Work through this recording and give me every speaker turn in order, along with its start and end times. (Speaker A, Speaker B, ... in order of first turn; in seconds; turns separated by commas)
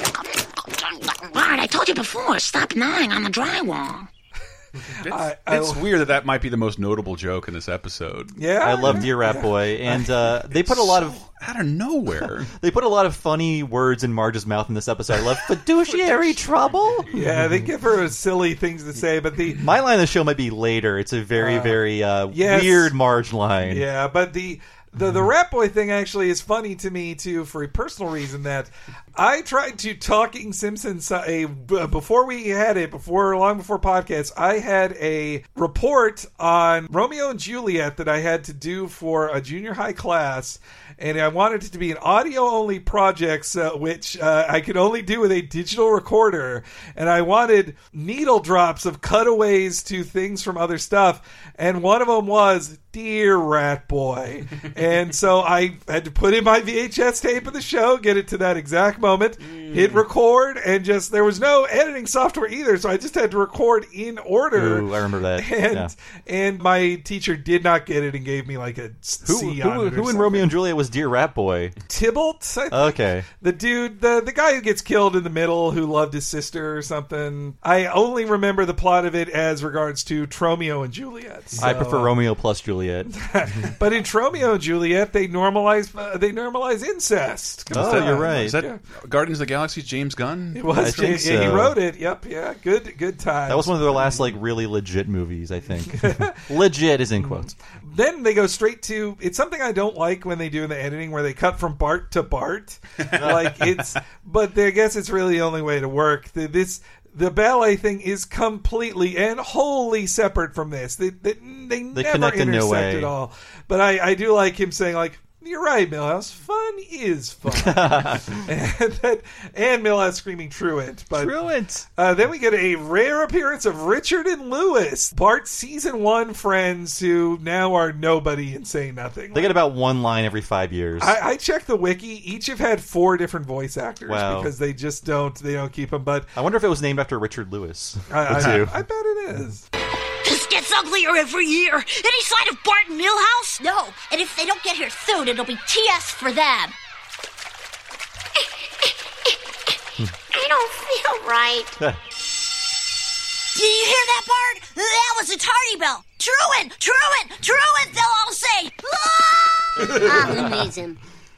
Speaker A: 0.1-4.1, Speaker B: 5.0-8.3, Speaker C: 5.1-5.8, Speaker C: 8.3-10.1, Speaker D: 8.6-11.2, Speaker B: 10.5-12.5, Speaker D: 12.5-17.1, Speaker C: 17.1-19.6, Speaker D: 19.6-23.8, Speaker C: 21.4-21.8, Speaker C: 22.3-22.9, Speaker C: 23.6-70.5, Speaker B: 59.5-60.0, Speaker D: 64.5-65.9, Speaker D: 69.2-71.7, Speaker C: 71.9-82.1, Speaker D: 72.7-73.2, Speaker D: 81.6-83.1, Speaker C: 83.1-88.8, Speaker B: 87.7-91.6, Speaker D: 87.7-88.6, Speaker C: 90.5-94.3, Speaker D: 90.8-91.7, Speaker D: 93.5-97.5, Speaker C: 95.9-96.4, Speaker C: 97.2-121.4, Speaker D: 111.9-113.1, Speaker D: 117.5-118.2, Speaker D: 121.2-121.8, Speaker C: 122.0-129.6, Speaker D: 129.3-131.1, Speaker C: 131.0-136.3, Speaker D: 134.1-134.5, Speaker D: 136.3-138.7, Speaker C: 138.1-139.6, Speaker E: 140.2-146.7, Speaker E: 150.3-151.7, Speaker E: 153.5-161.0